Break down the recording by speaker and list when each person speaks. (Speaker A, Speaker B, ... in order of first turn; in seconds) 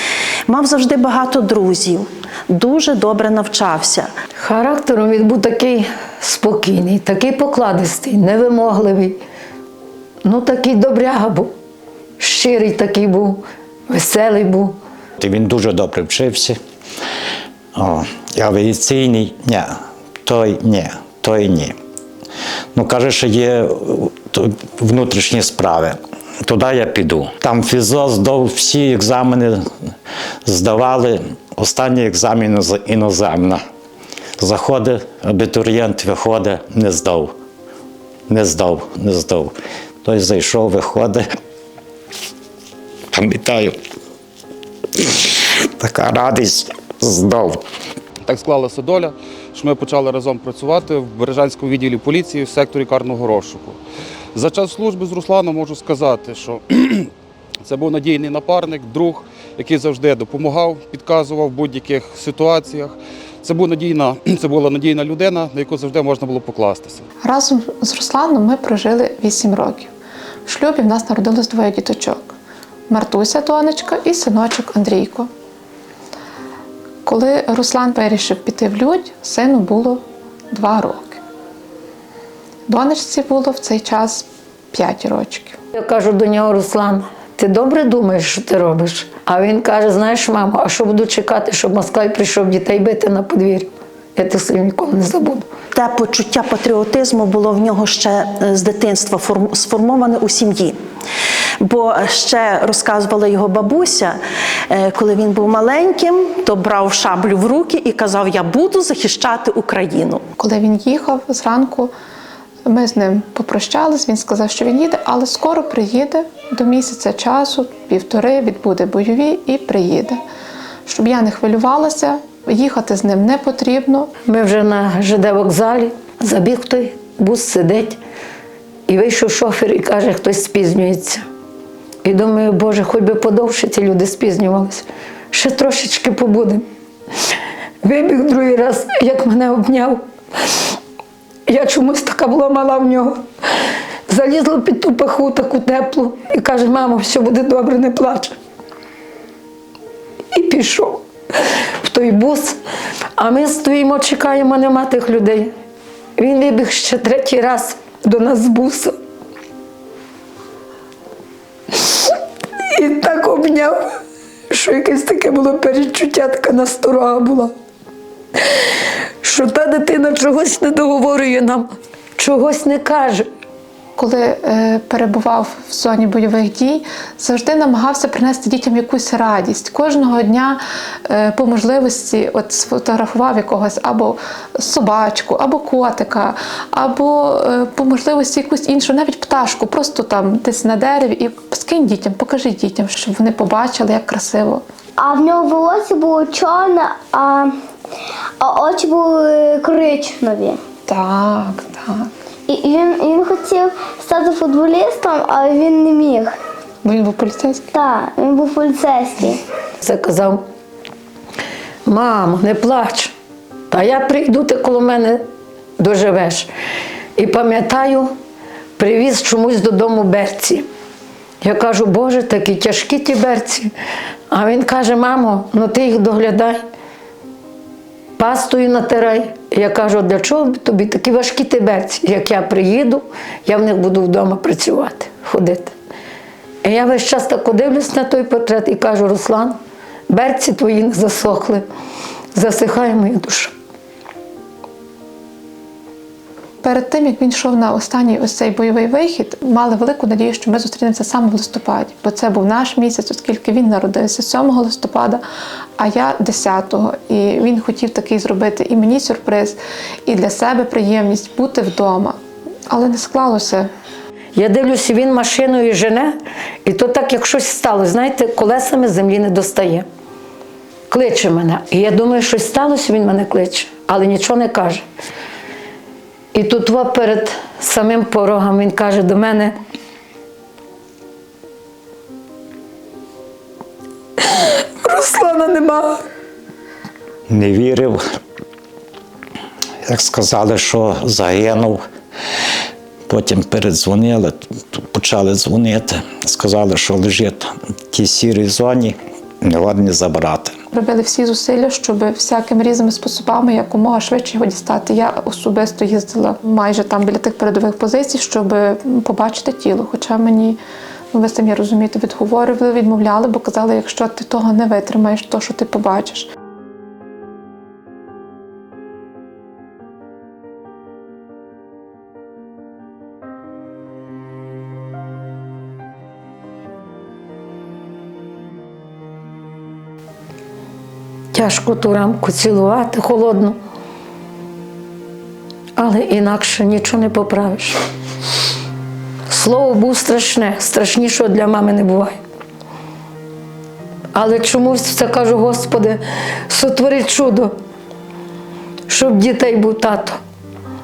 Speaker A: 0.5-4.1, 95.7-100.8, 101.6-104.2, 104.7-110.2
Speaker B: 4.3-9.2, 10.2-11.5, 12.2-14.7, 85.7-95.5, 124.2-128.0, 128.9-131.2, 132.0-136.6, 137.8-140.0, 141.5-143.2, 144.1-148.3, 150.3-151.0, 151.8-152.6, 153.2-155.5, 156.2-158.9, 162.7-163.9, 164.5-167.5, 169.2-173.3, 209.8-210.4, 211.8-213.1, 213.7-215.2, 215.8-216.5, 217.2-218.1, 218.8-220.7, 221.4-223.7, 224.3-226.6, 228.2-235.7, 236.6-239.6, 240.1-241.6, 242.3-243.5, 264.3-269.9, 270.9-274.8, 276.3-279.5, 284.3-286.0, 331.3-333.6, 335.8-337.8, 339.3-342.2, 344.1-347.5, 348.9-350.2
Speaker C: 15.2-16.6, 17.8-19.7, 20.2-21.7, 22.7-29.6, 30.4-33.6, 34.4-37.3, 38.3-39.5, 40.0-41.2, 43.1-43.8, 45.8-47.6, 287.3-288.0, 289.9-291.8, 293.1-300.5
Speaker D: 48.2-53.8, 54.3-57.1, 57.6-67.0
Speaker E: 67.2-69.9, 70.5-72.3, 72.9-75.3, 77.0-80.0, 80.5-81.2, 82.7-85.6, 110.4-111.9, 112.6-120.2, 120.9-124.1, 174.0-194.6, 200.9-202.1, 206.8-207.7, 246.6-255.2, 255.8-262.2, 262.7-263.7, 300.7-310.6, 311.1-316.3
Speaker F: 195.0-197.5, 198.4-200.6, 202.5-206.3, 207.7-209.4